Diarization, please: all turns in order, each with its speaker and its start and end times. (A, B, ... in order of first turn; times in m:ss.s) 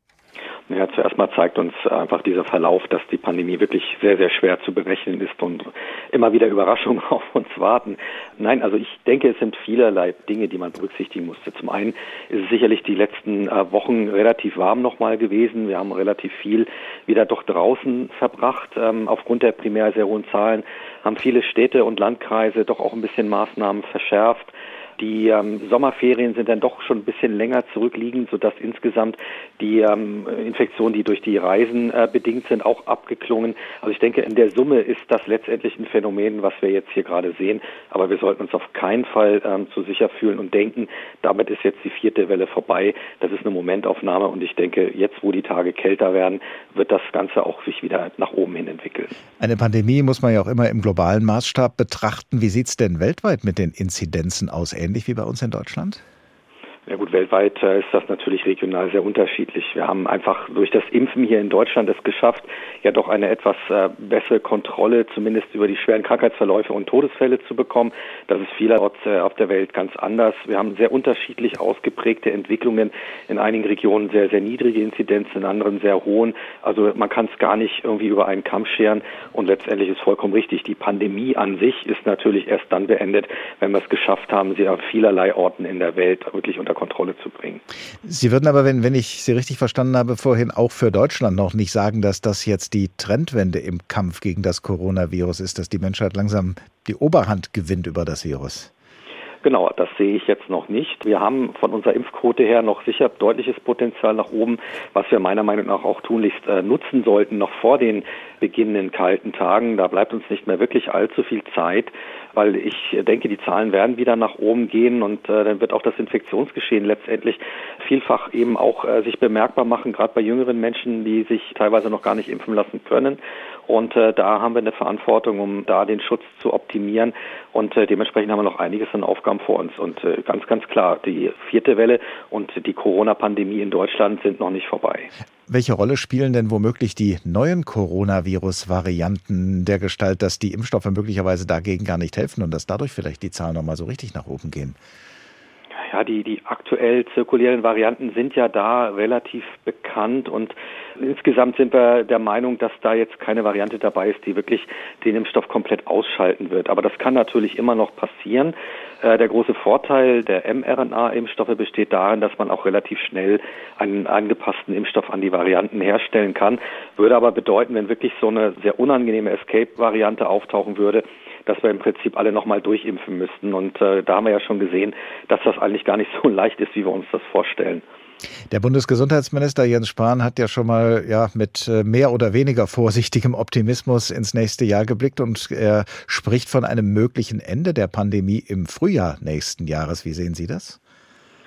0:00.7-0:49.2 A
0:49.4-0:56.0 B
0:56.9-1:27.6 A
1:28.0-1:38.7 B
1:39.4-2:15.1 A
2:15.5-2:24.8 B
2:25.8-2:57.8 A
2:58.5-3:10.8 B